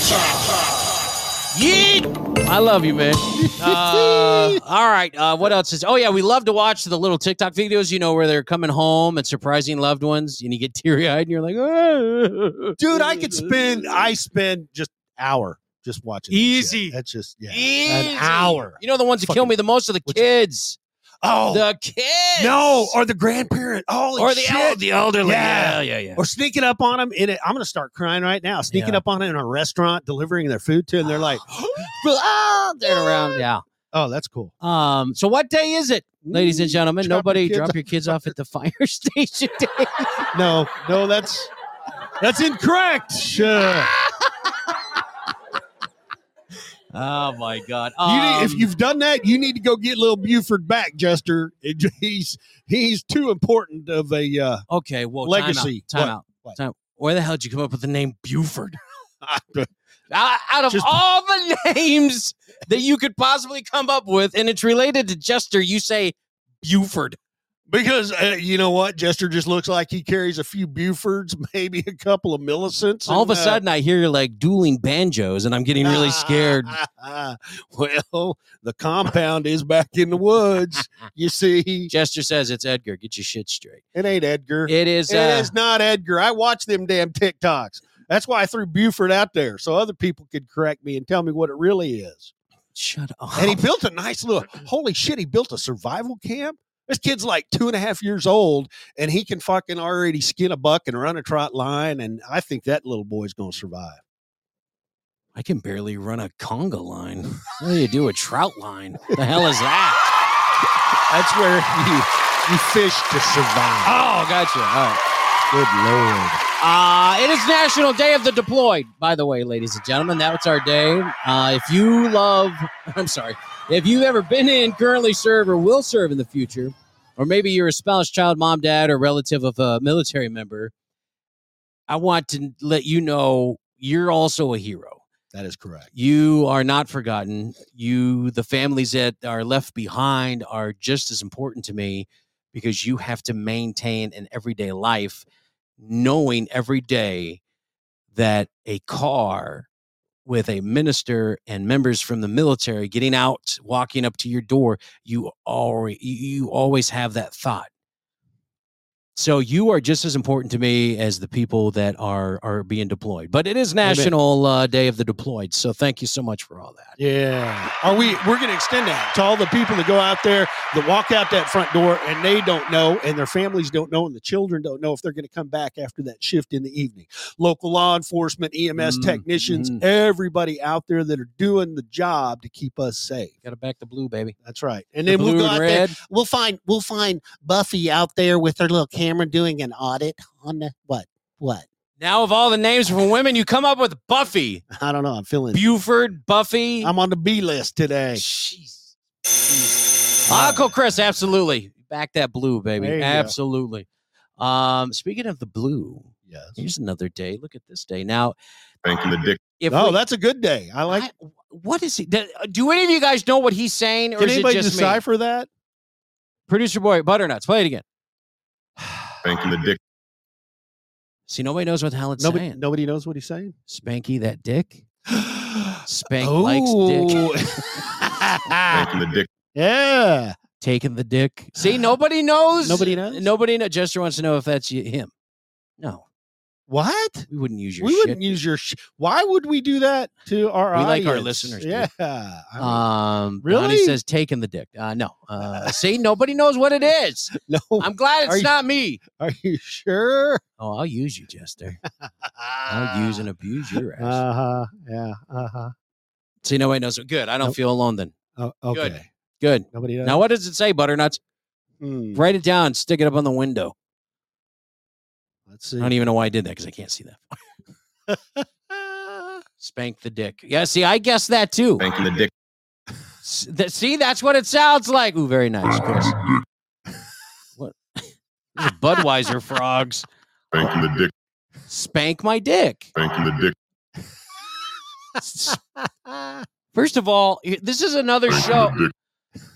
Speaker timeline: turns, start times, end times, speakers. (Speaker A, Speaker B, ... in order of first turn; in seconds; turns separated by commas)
Speaker A: 1.5-14.1, Speaker B: 3.4-4.6, Speaker B: 12.8-19.5, Speaker A: 16.3-17.0, Speaker A: 17.5-20.8, Speaker B: 21.2-21.6, Speaker A: 21.5-22.9, Speaker B: 22.4-31.9, Speaker A: 24.2-26.2, Speaker A: 28.7-29.0, Speaker A: 31.1-33.6, Speaker B: 32.8-33.4, Speaker B: 33.9-34.5, Speaker A: 34.6-40.1, Speaker B: 36.2-38.3, Speaker B: 40.3-41.5, Speaker B: 42.2-44.0, Speaker A: 46.9-48.7, Speaker B: 48.0-54.6, Speaker A: 54.7-58.8, Speaker B: 55.2-56.6, Speaker B: 59.2-59.7, Speaker A: 60.1-67.2, Speaker B: 60.7-61.0, Speaker B: 67.7-73.6, Speaker A: 73.1-76.8, Speaker B: 75.8-81.9, Speaker A: 81.9-83.8, Speaker B: 84.0-92.3, Speaker A: 84.7-85.5, Speaker A: 92.8-93.6, Speaker B: 93.3-104.0, Speaker A: 105.3-110.1, Speaker B: 111.1-114.0, Speaker A: 113.8-115.0, Speaker B: 115.5-116.4, Speaker A: 116.6-130.7, Speaker A: 131.9-135.0, Speaker B: 135.3-135.9, Speaker A: 135.9-145.2, Speaker A: 145.8-147.4, Speaker A: 148.1-149.7, Speaker A: 150.3-157.7, Speaker A: 159.2-167.0, Speaker B: 163.8-164.1, Speaker B: 167.0-183.3, Speaker A: 178.8-179.8, Speaker A: 183.4-184.3, Speaker B: 184.4-191.7, Speaker A: 185.1-186.0, Speaker A: 192.0-194.6, Speaker B: 194.7-195.6, Speaker A: 195.5-196.9, Speaker B: 196.8-198.2, Speaker A: 198.1-198.9, Speaker A: 199.5-203.9, Speaker B: 200.3-200.7, Speaker B: 202.8-203.3, Speaker A: 204.4-208.3, Speaker B: 206.3-206.6, Speaker C: 208.8-209.4, Speaker A: 209.6-210.0, Speaker B: 209.7-211.1, Speaker A: 210.9-215.0, Speaker B: 214.2-215.5, Speaker A: 216.5-217.8, Speaker B: 218.8-219.1, Speaker C: 219.2-219.8, Speaker A: 221.3-222.6, Speaker B: 222.2-223.6, Speaker A: 223.7-224.8, Speaker B: 225.1-228.9, Speaker A: 225.9-227.2, Speaker C: 228.7-229.3, Speaker B: 229.5-230.4, Speaker A: 230.6-235.1, Speaker B: 231.6-231.8, Speaker B: 232.6-233.3, Speaker A: 235.8-236.1, Speaker B: 236.7-237.3, Speaker A: 237.3-238.3, Speaker B: 237.8-242.8, Speaker A: 240.7-241.9, Speaker A: 242.6-249.0, Speaker B: 243.4-244.0, Speaker B: 245.4-245.8, Speaker B: 247.3-250.4, Speaker A: 250.6-251.8, Speaker B: 252.1-253.3, Speaker A: 252.7-254.2, Speaker B: 254.0-255.7, Speaker A: 256.4-258.1, Speaker B: 258.4-259.1, Speaker A: 258.7-261.2, Speaker B: 259.7-260.2, Speaker B: 261.8-262.2, Speaker A: 262.1-263.7, Speaker B: 265.5-265.9, Speaker A: 265.8-267.4, Speaker B: 268.1-269.4, Speaker A: 269.6-271.8, Speaker C: 271.8-272.3, Speaker A: 273.2-276.2, Speaker A: 277.6-278.1, Speaker A: 278.6-280.1, Speaker C: 280.5-281.1, Speaker A: 281.7-282.9, Speaker C: 282.9-283.6, Speaker A: 285.2-285.6, Speaker A: 286.7-288.8, Speaker C: 288.3-288.9